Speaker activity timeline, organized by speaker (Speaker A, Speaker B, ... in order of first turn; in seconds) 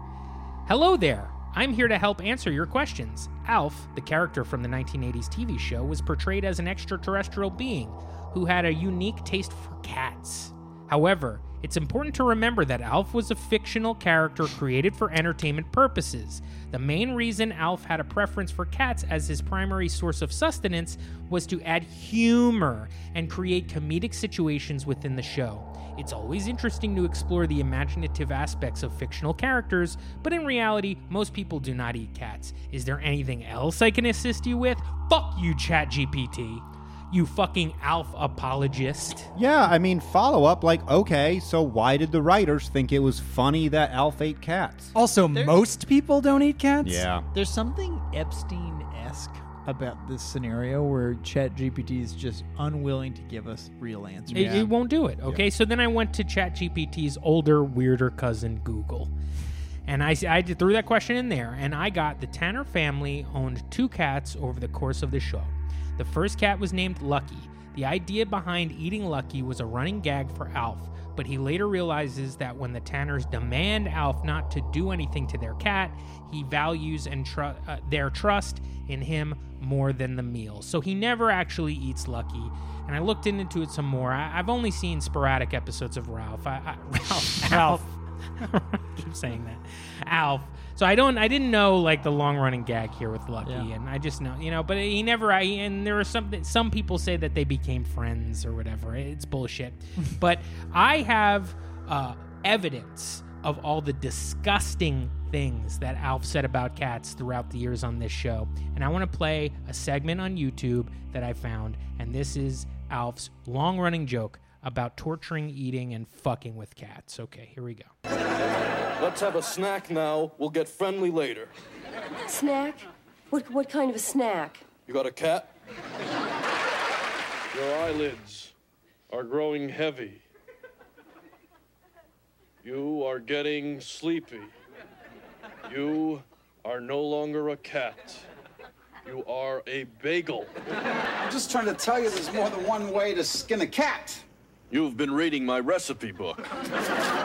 Speaker A: 0.7-39.3, 54.3-59.1, 59.9-117.9
Speaker B: 39.4-44.9, 46.8-47.3
Speaker C: 45.0-47.1, 54.3-54.7, 87.5-87.8
Speaker D: 45.3-45.6, 47.3-54.7, 93.4-93.7
Speaker E: 119.0-121.5, 124.9-125.5, 127.5-128.5, 129.1-130.2, 132.6-134.5, 135.7-138.3, 139.1-140.6, 144.7-146.5
Speaker F: 122.2-124.7
Speaker G: 141.2-144.2